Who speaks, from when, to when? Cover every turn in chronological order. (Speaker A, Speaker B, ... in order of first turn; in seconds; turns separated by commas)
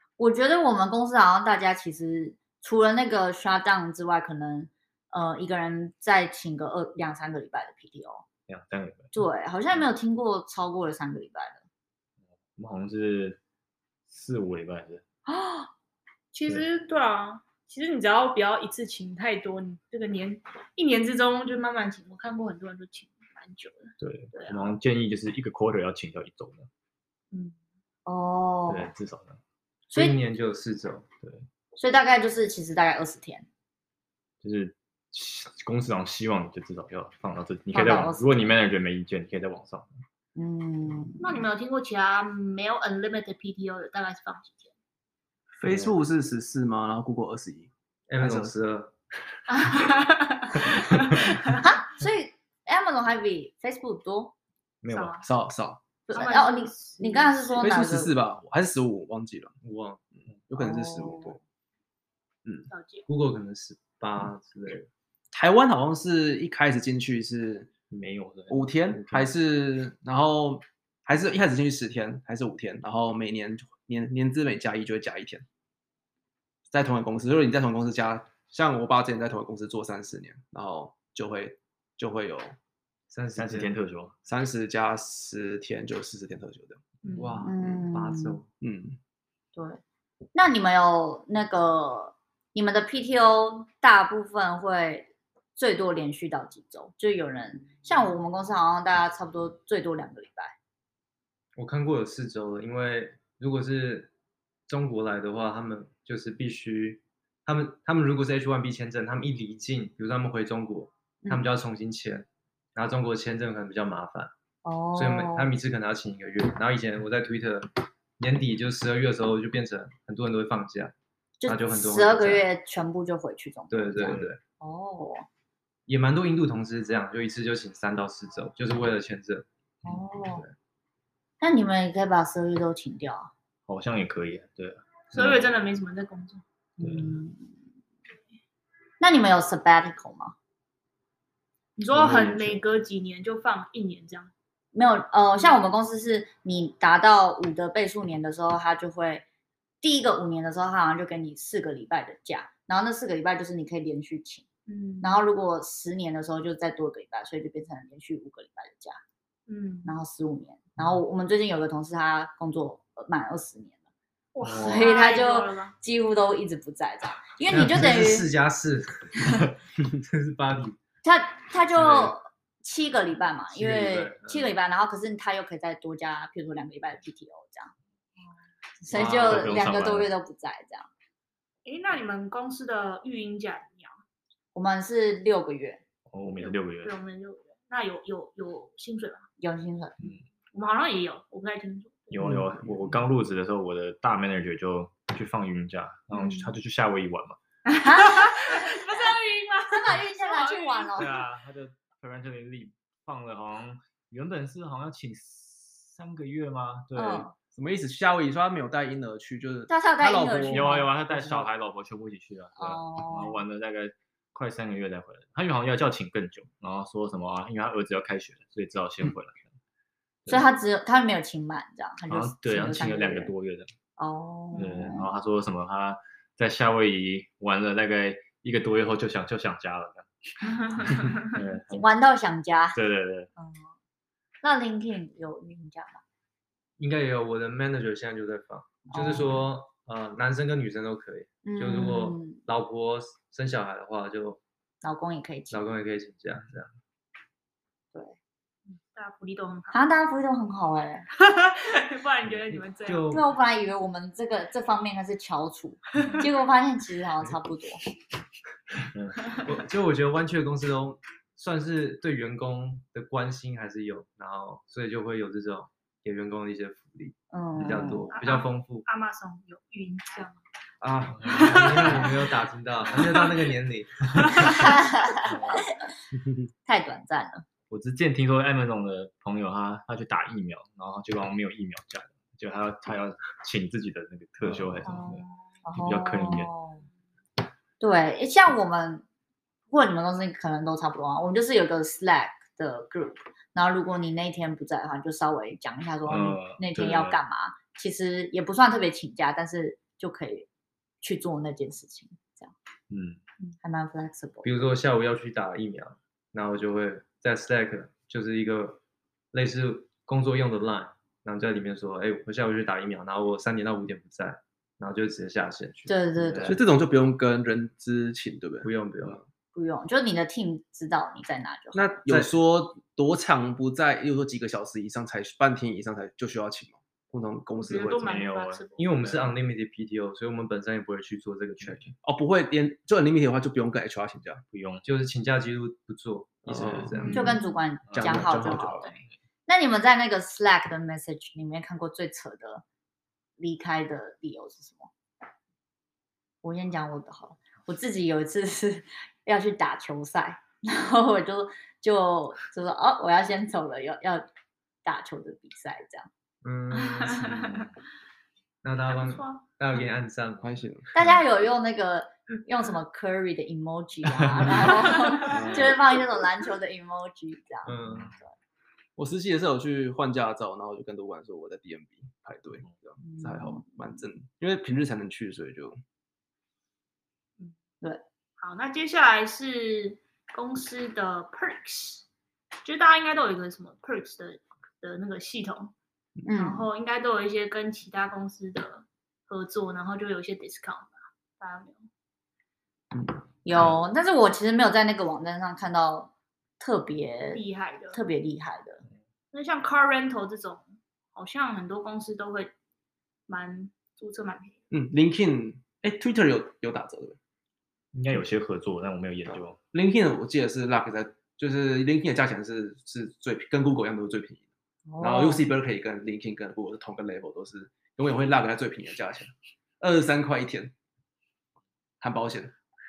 Speaker A: 0.2-8.2, Speaker B: 8.5-9.1, Speaker A: 9.1-11.6, Speaker B: 12.6-13.4, Speaker B: 14.1-15.0, Speaker C: 15.3-15.7, Speaker C: 16.3-24.7, Speaker B: 24.0-26.7, Speaker A: 28.1-28.9, Speaker B: 28.7-29.4, Speaker D: 29.9-31.1, Speaker A: 29.9-30.2, Speaker A: 31.8-33.5, Speaker B: 34.4-40.0, Speaker A: 37.7-38.5, Speaker A: 40.3-41.3, Speaker C: 41.2-44.7, Speaker E: 45.5-48.5, Speaker B: 45.6-46.0, Speaker D: 48.1-48.9, Speaker C: 49.5-51.6, Speaker A: 51.6-54.3, Speaker B: 54.8-55.1, Speaker C: 54.9-55.3, Speaker E: 55.2-55.8, Speaker A: 56.1-58.1, Speaker C: 56.1-57.5, Speaker E: 57.6-59.5, Speaker D: 59.6-60.0, Speaker E: 60.1-61.4, Speaker A: 60.5-61.4, Speaker C: 62.7-63.1, Speaker D: 63.1-64.9, Speaker E: 65.3-67.7, Speaker B: 67.9-69.3, Speaker E: 68.5-75.4, Speaker E: 76.7-82.5, Speaker D: 83.1-83.7, Speaker B: 83.3-84.1, Speaker E: 84.2-86.8, Speaker C: 87.0-87.5, Speaker D: 87.1-88.5, Speaker A: 87.4-88.4, Speaker E: 88.6-89.0, Speaker A: 89.5-89.8, Speaker A: 90.3-100.5, Speaker D: 101.5-104.1, Speaker D: 104.7-114.3, Speaker A: 114.6-115.5, Speaker D: 114.9-120.9, Speaker A: 121.4-125.2, Speaker D: 121.4-122.5, Speaker D: 123.7-124.4, Speaker D: 125.9-129.5, Speaker A: 129.8-130.4, Speaker A: 131.4-133.3, Speaker B: 133.7-135.5, Speaker C: 135.1-136.4, Speaker A: 136.8-137.6, Speaker B: 136.8-137.2, Speaker A: 139.0-140.3, Speaker C: 141.8-144.3, Speaker B: 141.9-142.6, Speaker A: 144.7-149.2, Speaker A: 149.8-154.4, Speaker C: 154.7-155.2, Speaker A: 155.0-159.0, Speaker C: 159.5-160.0, Speaker A: 159.8-163.8, Speaker C: 164.3-165.7, Speaker B: 164.4-164.9, Speaker A: 164.5-168.3, Speaker D: 167.5-170.8, Speaker A: 171.0-177.7, Speaker D: 171.8-172.1, Speaker D: 173.5-174.5, Speaker A: 178.8-180.9, Speaker B: 178.9-180.1, Speaker D: 178.9-179.3, Speaker C: 181.6-184.0, Speaker A: 184.5-185.8, Speaker B: 186.1-186.9, Speaker C: 186.4-189.3, Speaker A: 189.4-189.9, Speaker C: 190.5-192.1, Speaker B: 192.1-197.4, Speaker E: 192.2-192.9, Speaker C: 196.1-196.5, Speaker C: 197.7-201.0, Speaker A: 197.8-198.8, Speaker A: 199.7-201.2, Speaker B: 200.9-207.3, Speaker A: 206.9-207.3, Speaker E: 207.5-210.7, Speaker A: 209.7-211.4, Speaker B: 210.5-219.5, Speaker A: 212.6-213.4, Speaker A: 220.3-223.3, Speaker B: 222.1-223.7, Speaker A: 224.0-225.1, Speaker C: 224.5-224.8, Speaker B: 224.6-231.9, Speaker C: 230.4-231.4, Speaker A: 231.7-232.8, Speaker B: 232.7-233.3, Speaker A: 233.4-233.7, Speaker A: 234.4-236.0, Speaker D: 236.8-244.4, Speaker A: 238.9-239.4, Speaker A: 241.4-242.4, Speaker A: 244.8-245.6, Speaker D: 245.5-246.7, Speaker C: 248.7-249.8, Speaker A: 249.7-251.1, Speaker C: 251.2-253.1, Speaker D: 252.5-253.3, Speaker A: 253.1-257.8, Speaker B: 258.9-259.4, Speaker D: 259.4-268.8, Speaker A: 267.3-268.1, Speaker C: 268.1-270.4, Speaker D: 270.8-274.6, Speaker B: 271.1-272.1, Speaker C: 271.2-272.1, Speaker C: 274.2-274.7, Speaker A: 274.5-275.9, Speaker B: 275.2-275.7, Speaker A: 276.6-277.4, Speaker B: 277.7-285.2, Speaker C: 284.8-285.5, Speaker A: 285.6-286.8, Speaker B: 285.7-286.5, Speaker A: 287.8-289.0, Speaker A: 289.7-300.5, Speaker B: 296.1-297.2, Speaker A: 301.0-302.5, Speaker B: 302.9-303.2, Speaker A: 303.6-304.7, Speaker D: 304.4-308.8, Speaker D: 309.3-315.9, Speaker A: 315.9-316.6, Speaker B: 316.2-316.6, Speaker E: 316.4-319.2, Speaker D: 318.6-319.2, Speaker A: 319.5-321.9, Speaker E: 321.7-328.1, Speaker C: 327.6-328.9, Speaker B: 328.0-329.3, Speaker D: 328.8-331.9, Speaker E: 332.0-334.4, Speaker B: 334.5-334.9, Speaker D: 334.8-337.4, Speaker E: 336.5-337.0, Speaker B: 336.6-336.9, Speaker C: 337.0-337.5, Speaker A: 337.1-342.6, Speaker B: 337.9-339.0, Speaker D: 338.0-338.6, Speaker E: 338.0-338.6, Speaker A: 343.4-344.9, Speaker A: 346.4-354.3, Speaker A: 354.8-356.1, Speaker D: 356.4-357.4, Speaker C: 356.8-357.7, Speaker D: 358.6-360.6, Speaker C: 358.9-359.4, Speaker E: 360.4-360.9, Speaker A: 360.9-368.3, Speaker C: 364.6-365.4, Speaker E: 365.2-365.8, Speaker D: 367.6-368.1, Speaker E: 369.0-375.8, Speaker A: 373.0-373.6, Speaker C: 378.4-382.0, Speaker C: 382.6-385.7, Speaker A: 386.2-386.7, Speaker C: 386.4-391.9, Speaker E: 392.9-393.2, Speaker A: 393.4-398.8, Speaker C: 397.3-398.0, Speaker C: 399.3-402.5, Speaker C: 403.3-404.6, Speaker E: 404.7-407.2, Speaker B: 407.9-409.6, Speaker E: 409.7-414.5, Speaker A: 414.9-415.4, Speaker E: 415.0-420.7, Speaker E: 422.0-422.5